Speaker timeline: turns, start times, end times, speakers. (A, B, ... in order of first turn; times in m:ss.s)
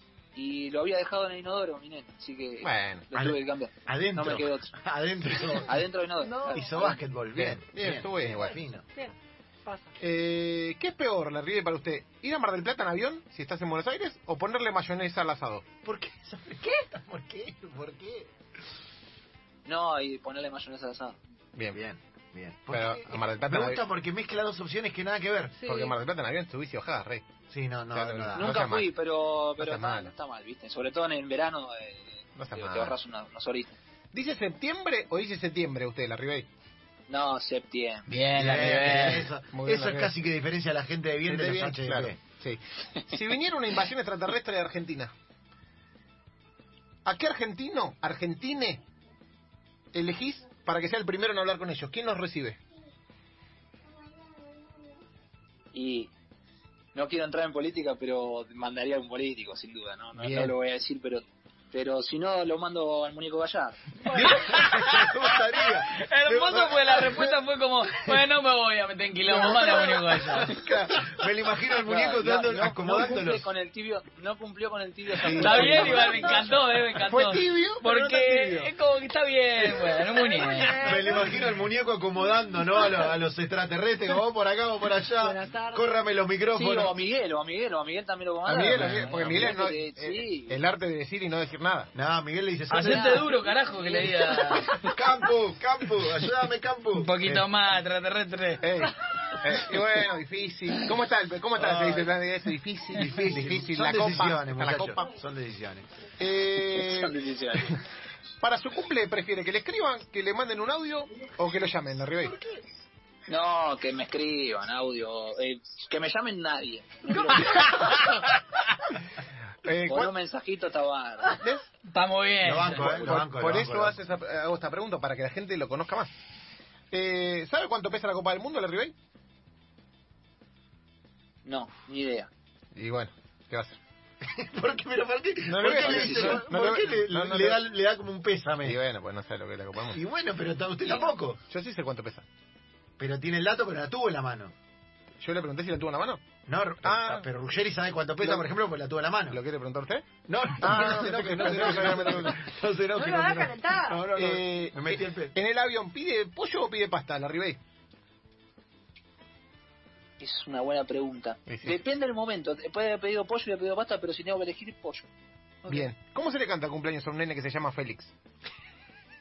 0:00.3-0:04.8 A
0:02.6-0:03.1 B
0:03.1-0:05.8 C
0:05.5-0:07.0 A
0:06.2-0:07.0 D
0:06.5-0:08.8 C
0:07.4-0:08.6 B
0:09.6-0:09.9 D
0:10.0-0:15.6 B
0:15.8-0:18.3 C
0:19.6-0:21.2 A
0:21.5-0:21.8 B
0:21.7-0:25.6 C
0:22.7-0:23.8 B
0:25.6-0:26.0 D
0:25.6-0:27.2 B
0:27.5-0:28.6 C
0:27.9-0:28.9 B
0:28.3-0:33.7 A
0:29.6-0:30.1 B
0:32.4-0:33.0 B
0:34.1-0:36.5 B
0:37.1-0:38.1 A
0:38.1-0:39.3 E
0:38.3-0:42.2 C
0:38.6-0:40.1 B
0:41.2-0:45.1 B
0:47.0-0:48.8 B
0:49.9-0:52.6 B
0:55.7-0:56.1 A
0:56.9-1:04.0 A
1:00.1-1:00.5 B
1:04.0-1:07.3 C
1:04.3-1:05.1 E
1:05.9-1:10.6 E
1:09.3-1:13.4 C
1:11.8-1:16.5 A
1:15.2-1:21.1 E
1:15.2-1:16.1 B
1:15.4-1:16.0 C
1:17.0-1:18.7 B
1:20.2-1:21.3 D
1:20.8-1:26.9 C
1:25.2-1:25.8 D
1:26.5-1:30.6 A
1:28.4-1:31.9 B
1:28.7-1:29.2 E
1:31.9-1:33.3 C
1:32.7-1:34.8 E
1:32.8-1:34.8 D
1:34.8-1:37.5 C
1:36.9-1:38.6 E
1:38.6-1:45.1 B
1:41.6-1:42.1 C
1:42.9-1:45.8 C
1:46.2-1:47.2 B
1:46.7-1:47.8 A
1:48.4-1:52.4 B
1:53.3-1:58.1 A
1:57.3-1:58.2 E
1:59.6-2:00.1 B
1:59.9-2:01.4 A
2:01.4-2:01.7 B
2:01.9-2:03.0 E
2:02.4-2:04.0 C
2:02.7-2:06.1 B
2:06.9-2:08.9 B
2:11.4-2:12.3 A
2:12.7-2:13.8 B
2:14.2-2:18.8 C
2:15.4-2:17.6 B
2:18.6-2:20.0 B
2:19.9-2:21.4 C
2:21.5-2:22.2 B
2:23.0-2:24.5 C
2:25.2-2:26.2 B
2:26.5-2:29.4 C
2:26.8-2:27.3 B
2:28.2-2:28.5 B
2:29.3-2:32.5 B
2:30.3-2:35.3 C
2:32.9-2:34.0 D
2:34.1-2:37.6 B
2:40.2-2:45.1 A
2:41.5-2:41.8 B
2:45.7-2:48.1 B